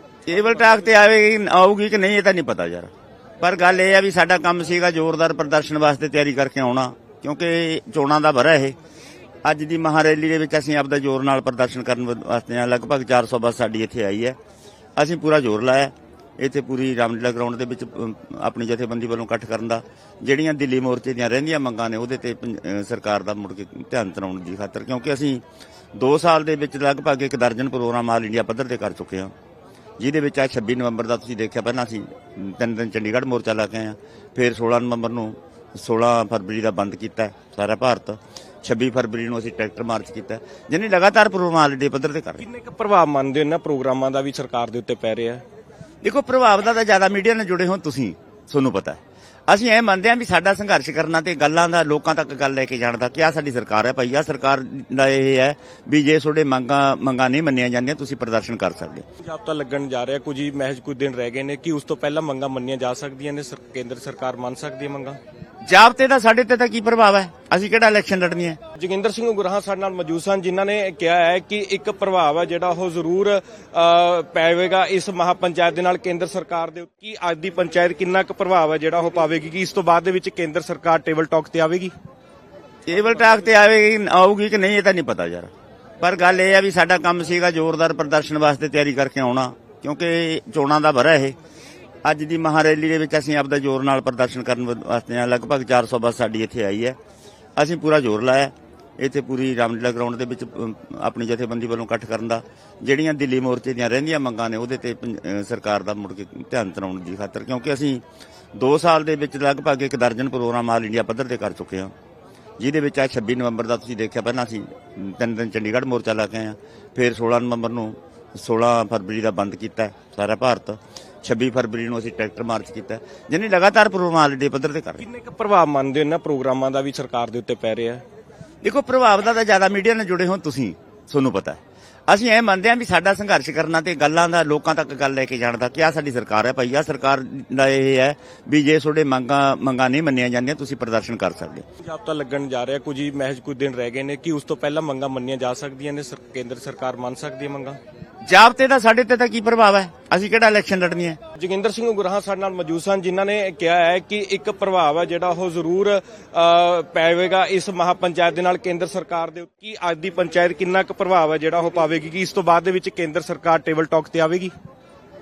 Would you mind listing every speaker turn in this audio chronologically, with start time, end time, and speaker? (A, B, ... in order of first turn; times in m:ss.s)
0:00.2-0:08.8 A
0:09.4-0:14.4 A
0:15.0-0:25.4 A
0:25.9-0:29.3 A
0:30.0-0:42.4 A
0:42.4-0:45.4 B
0:46.0-0:59.0 A
0:59.2-1:05.2 B
1:05.6-1:08.6 A
1:08.8-1:21.9 B
1:22.8-1:31.4 A
1:32.0-1:37.0 A
1:37.6-1:51.9 A
1:52.6-2:05.0 A
2:05.0-2:08.0 B
2:08.6-2:21.6 A
2:21.8-2:27.8 B
2:28.2-2:31.2 A
2:31.4-2:44.5 B